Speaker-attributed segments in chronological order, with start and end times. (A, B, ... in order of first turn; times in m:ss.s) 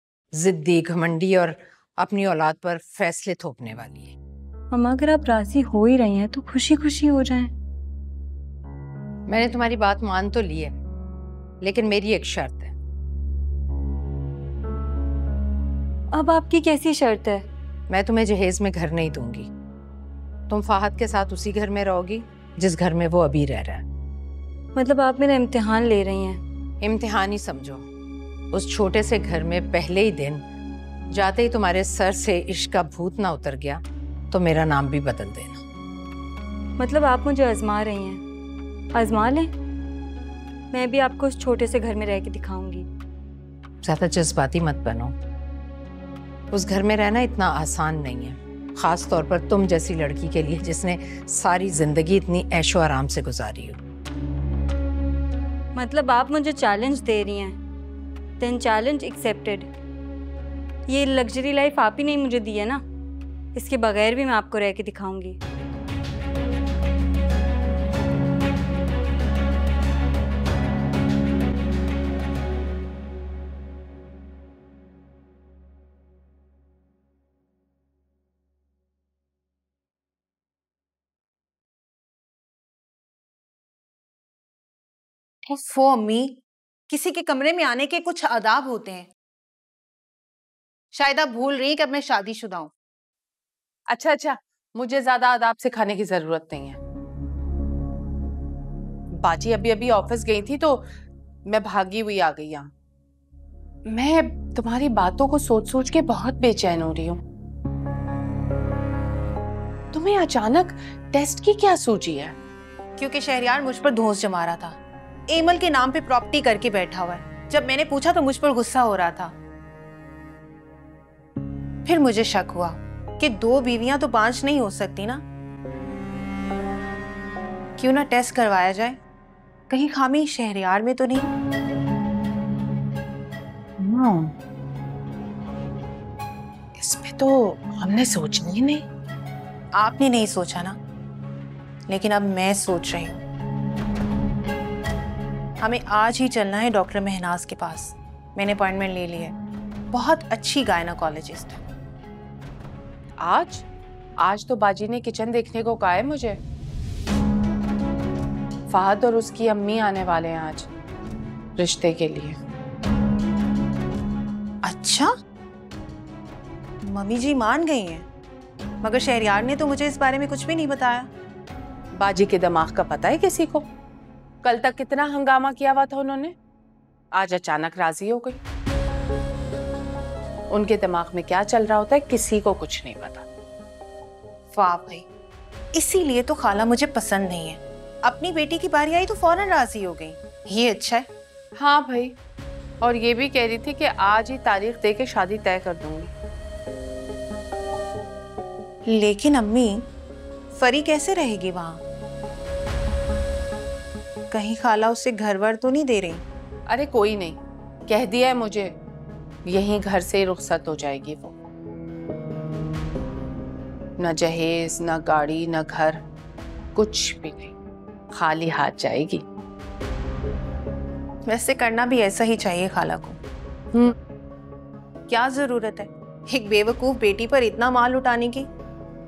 0:00.3-0:04.2 A
0:04.7-0:07.5 B
0:09.3-0:10.7 A
0:11.6-0:12.7 A
0:16.1-0:17.4 B
0:17.9-0:19.5 A
0:20.5-0:23.8 A
0:24.8-0:26.4 B
0:26.8-0:27.8 A
0:28.5-0:30.4 A
0:31.1-0:35.6 A
0:36.8-0:38.2 B
0:38.9-0:39.5 B
0:40.7-0:42.9 B
0:43.8-0:45.1 A
0:46.5-0:53.8 A
0:55.8-0:57.6 B
0:58.4-0:59.7 B
1:00.9-1:02.8 B
1:03.6-1:05.4 B
1:25.5-1:26.4 C
1:26.9-1:29.1 C
1:30.9-1:32.7 C
1:33.9-1:36.8 D
1:39.2-1:40.8 D
1:41.5-1:42.7 D
1:43.9-1:47.2 D
1:49.9-1:52.4 D
1:53.0-1:54.8 C
1:55.3-1:59.3 C
2:01.9-2:05.2 C
2:07.8-2:09.0 C
2:09.7-2:11.3 C
2:16.8-2:18.8 D
2:19.8-2:20.8 C
2:21.9-2:23.2 C
2:25.6-2:29.4 C
2:29.9-2:31.6 C
2:33.2-2:33.6 D
2:34.2-2:36.4 D
2:38.7-2:40.7 D
2:41.6-2:42.4 D
2:44.6-2:45.1 C
2:46.8-2:48.0 C
2:48.8-2:51.1 C
2:52.0-2:53.7 D
2:54.4-2:56.3 D
2:57.2-2:58.4 D
3:00.5-3:03.3 D
3:04.5-3:05.0 C
3:05.7-3:11.1 C
3:11.6-3:12.1 D
3:12.8-3:16.1 D
3:18.9-3:19.8 C
3:20.6-3:21.8 C
3:24.3-3:26.2 C
3:26.7-3:28.7 D
3:29.5-3:31.4 D
3:34.0-3:36.0 D
3:36.8-3:37.5 D
3:38.1-3:39.2 D
3:41.3-3:43.2 C
3:45.1-3:48.5 C